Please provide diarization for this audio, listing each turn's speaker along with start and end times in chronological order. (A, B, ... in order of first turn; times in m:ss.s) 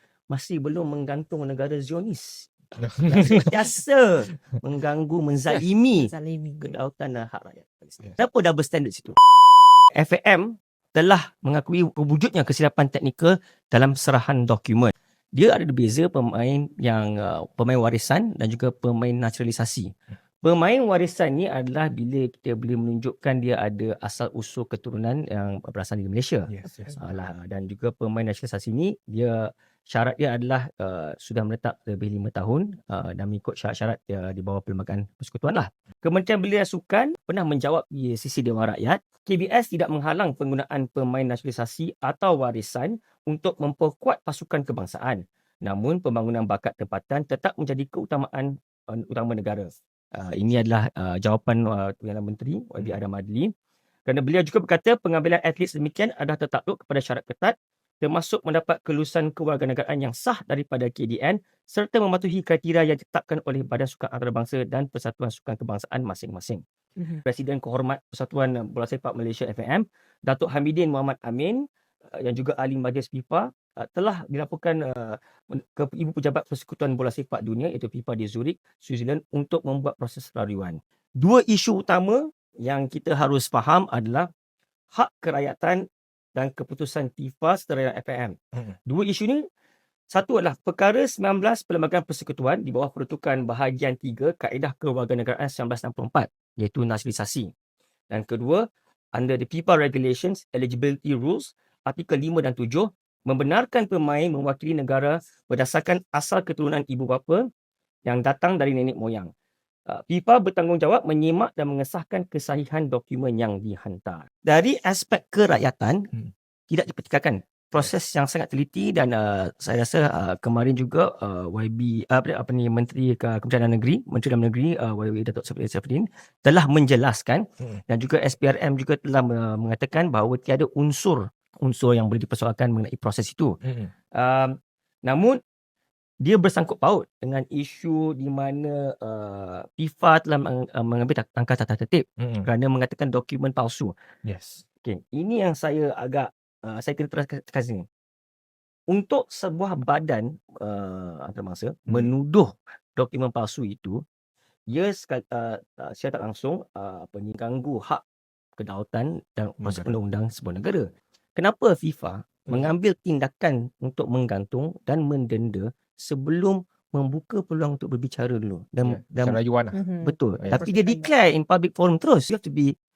0:00.3-0:02.5 A
0:02.8-0:03.5 B
0:03.0-0:09.2 A
0:06.0-0:06.8 C
0:10.0-0:53.5 A
0:26.5-0:27.1 B
0:54.1-1:06.6 A
1:07.2-1:11.6 A
1:12.2-1:24.3 A
1:24.9-1:25.8 A
1:26.4-1:29.4 A
1:30.1-1:37.5 A
1:38.1-1:47.5 A
1:48.0-1:49.3 A
1:49.9-1:56.1 A
1:56.7-2:13.6 A
2:13.6-2:13.9 B
2:14.1-2:15.4 A
2:16.2-2:23.9 A
2:22.2-2:22.5 B
2:24.2-2:24.6 B
2:24.8-2:27.9 A
2:28.9-2:34.0 A
2:34.7-2:38.0 A
2:38.6-2:49.4 A
2:39.6-2:40.0 B
2:48.8-2:49.8 B
2:49.7-2:51.1 C
2:50.0-2:52.7 A
2:50.4-2:50.6 B